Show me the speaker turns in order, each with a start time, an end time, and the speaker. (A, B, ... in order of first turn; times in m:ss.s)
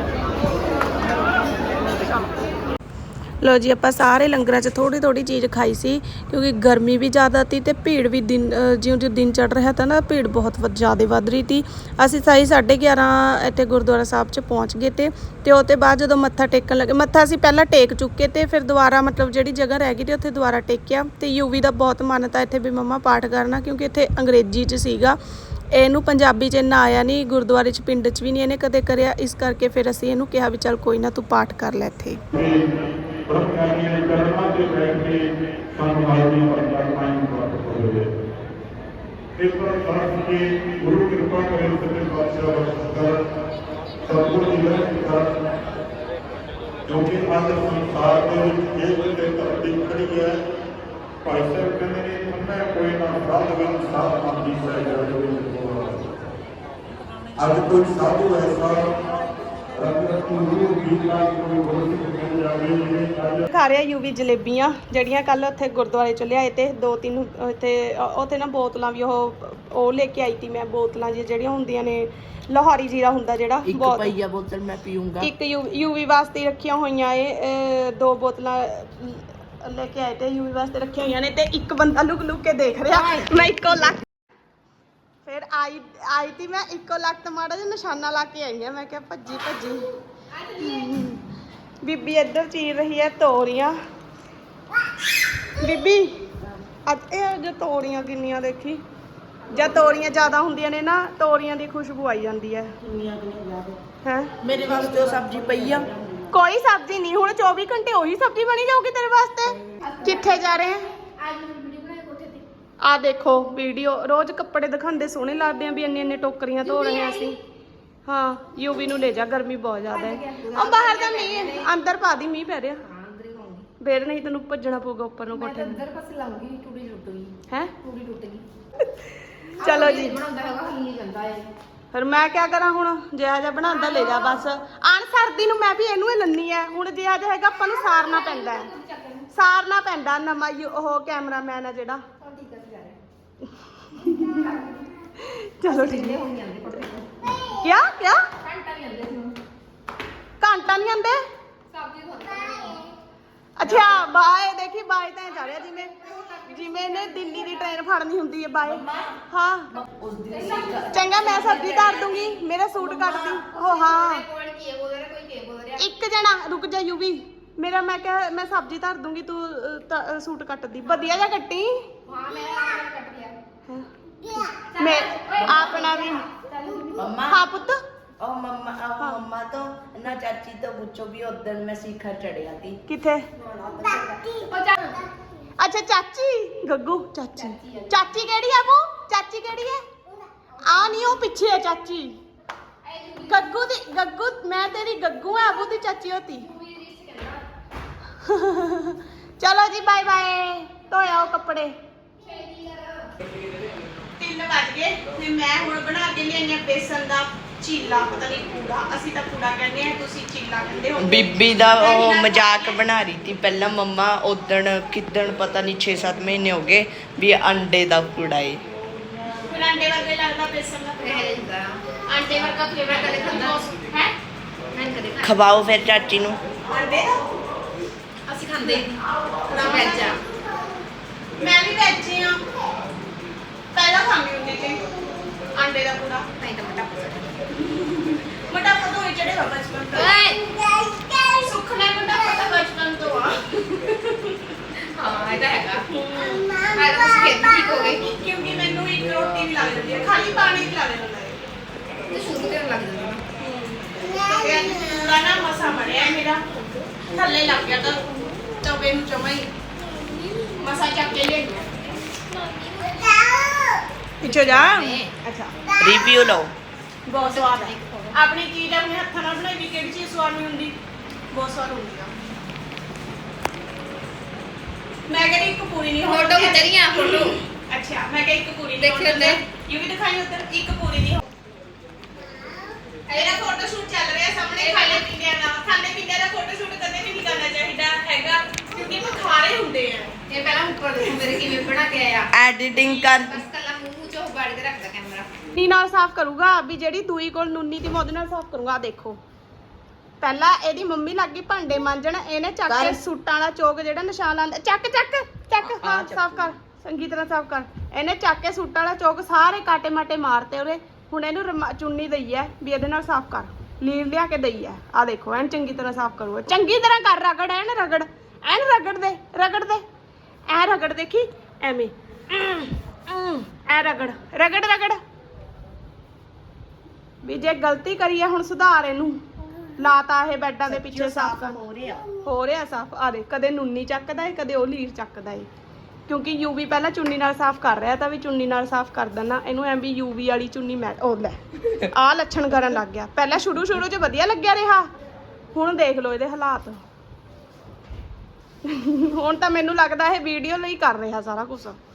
0:03.4-0:25.2 A
0:25.7-0:32.2 A
0:32.3-0:38.0 B
0:39.4-0:43.2 B
0:44.0-0:45.6 B
0:46.8-0:50.4 B
0:51.2-0:56.0 B
0:57.4-0:58.9 B
0:59.7-1:03.5 B
1:03.5-1:14.2 A
1:13.6-1:15.3 C
1:15.2-1:24.0 A
1:22.9-1:23.8 D
1:25.2-1:29.9 A
1:30.3-1:31.1 D
1:30.6-1:31.2 A
1:31.8-1:33.8 A
1:35.5-1:36.2 A
1:36.9-1:38.8 A
1:39.4-1:40.3 D
1:39.5-1:42.7 A
1:42.8-1:43.8 C
1:44.0-1:44.4 A
1:44.4-1:46.3 C
1:46.3-1:50.9 A
1:49.8-1:52.4 D
1:52.8-1:57.4 A
1:56.7-1:57.3 D
1:58.1-2:02.8 A
1:59.9-2:01.7 D
2:02.8-2:03.7 D
2:03.8-2:05.8 A
2:05.3-2:08.4 D
2:07.5-2:07.7 A
2:08.8-2:09.1 A
2:09.6-2:10.2 A
2:09.6-2:11.5 D
2:11.9-2:18.7 A
2:13.6-2:14.4 D
2:17.8-2:19.3 D
2:19.3-2:22.0 A
2:22.2-2:23.0 D
2:23.4-2:24.6 A
2:24.0-2:25.1 D
2:25.2-2:26.2 A
2:25.6-2:27.6 D
2:27.6-2:28.3 A
2:28.4-2:29.4 D
2:30.4-2:31.2 A
2:31.7-2:32.9 D
2:33.6-2:39.7 A
2:33.7-2:33.9 D
2:35.5-2:37.6 D
2:38.6-2:39.2 C
2:39.7-2:42.2 C
2:40.3-2:42.2 D
2:40.9-2:44.2 A
2:42.8-2:43.4 C
2:43.5-2:45.9 D
2:45.8-2:51.9 A
2:52.1-2:53.4 D
2:53.7-2:56.3 A
2:54.5-2:57.1 D
2:55.4-2:55.6 C
2:56.9-2:57.4 C
2:57.3-2:57.8 A
2:58.2-3:02.8 C
3:02.9-3:03.3 A
3:03.3-3:05.0 D
3:05.6-3:09.9 A
3:07.4-3:08.1 D
3:10.5-3:11.2 D
3:10.6-3:12.2 A
3:12.8-3:13.6 D
3:13.3-3:16.5 A
3:16.4-3:17.4 D
3:18.2-3:21.7 A
3:22.2-3:23.1 D
3:24.2-3:32.8 A
3:31.0-3:38.6 C
3:39.5-3:41.4 A
3:41.0-3:43.6 D
3:42.1-3:44.1 A
3:44.7-3:45.7 D
3:45.2-3:46.4 C
3:46.6-3:47.3 A
3:48.3-3:49.0 D
3:48.6-3:50.2 A
3:49.5-3:50.2 D
3:51.4-3:52.4 A
3:53.8-3:55.0 A
3:55.5-3:56.3 A
3:56.4-3:57.4 D
3:57.5-4:00.1 A
3:59.9-4:00.8 D
4:01.1-4:04.5 A
4:04.9-4:05.9 D
4:05.9-4:07.0 A
4:06.7-4:08.0 D
4:07.8-4:11.4 A
4:12.1-4:13.2 D
4:13.4-4:16.4 A
4:17.0-4:19.5 A
4:20.5-4:21.8 A
4:22.3-4:23.2 D
4:24.2-4:25.5 A
4:24.2-4:25.1 D
4:25.8-4:26.5 C
4:27.1-4:30.8 A
4:27.2-4:28.2 D
4:31.3-4:32.1 A
4:35.1-4:41.3 A
4:36.0-4:37.3 D
4:38.8-4:39.4 D
4:43.1-4:50.2 A
4:43.1-4:43.4 D
4:44.6-4:45.0 D
4:50.3-4:55.3 D
4:52.3-4:53.4 C
4:55.5-4:59.2 A
5:00.2-5:19.8 A
5:02.7-5:03.0 C
5:05.6-5:06.5 C
5:20.5-5:25.0 A
5:27.2-5:29.2 A
5:29.8-5:31.6 A
5:30.6-5:32.1 C
5:32.2-5:35.5 A
5:36.1-5:44.9 A
5:45.5-5:46.8 A
5:48.6-5:51.8 A